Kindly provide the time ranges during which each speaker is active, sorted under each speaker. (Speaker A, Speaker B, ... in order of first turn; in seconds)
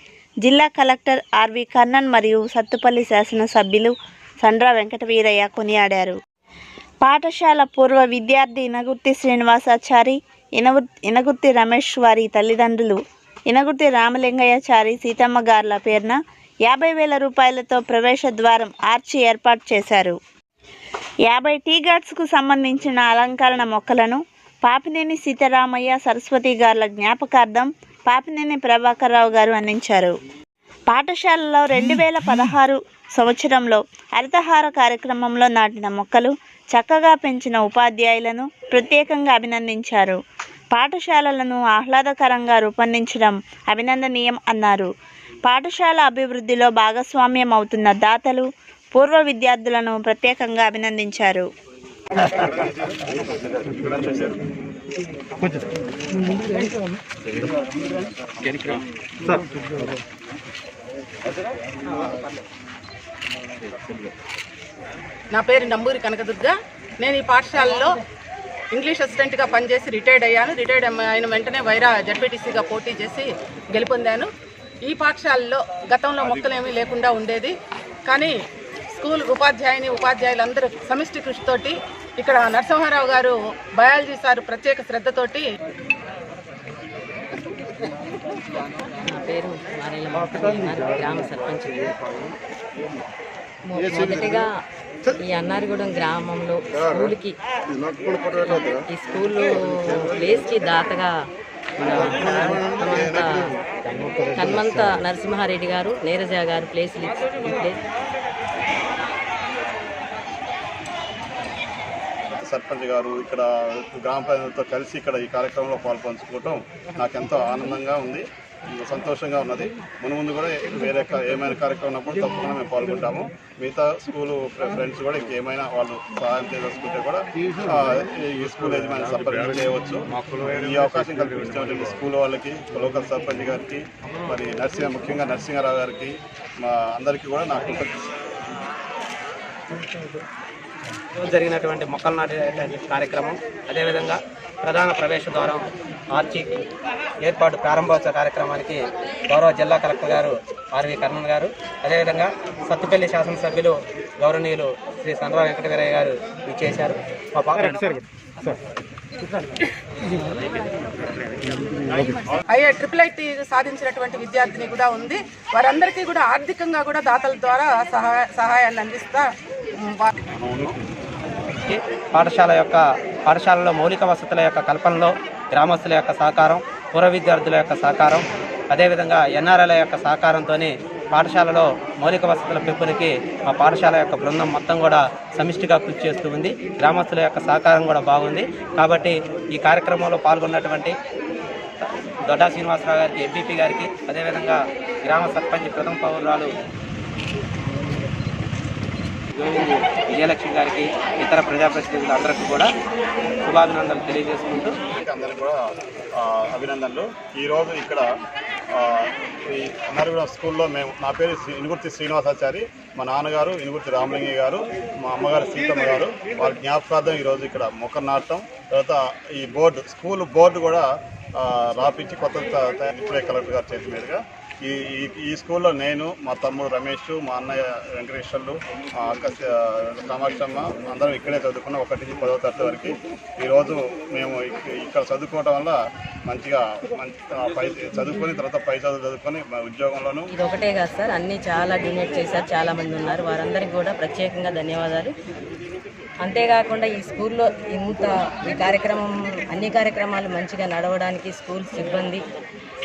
Speaker A: 0.4-6.2, 7.0-20.2, 21.3-30.2, 30.9-40.2, 40.7-44.9, 45.5-51.5
Speaker B: 53.8-54.3, 76.2-76.5, 112.4-138.1, 170.3-170.8, 205.0-205.6, 206.2-208.1, 208.7-235.8, 236.3-240.3
Speaker C: 58.4-58.8, 141.2-146.5, 147.2-158.0, 171.6-190.9, 192.3-196.5, 199.4-202.7, 203.4-204.8
Speaker D: 65.3-67.9, 68.7-74.3, 74.8-77.5, 78.0-78.4, 78.9-85.4, 162.5-169.3, 169.8-170.1
Speaker E: 89.0-91.9, 93.7-94.5, 95.2-97.4, 98.2-101.2, 101.8-107.8, 240.3-245.1, 246.2-252.2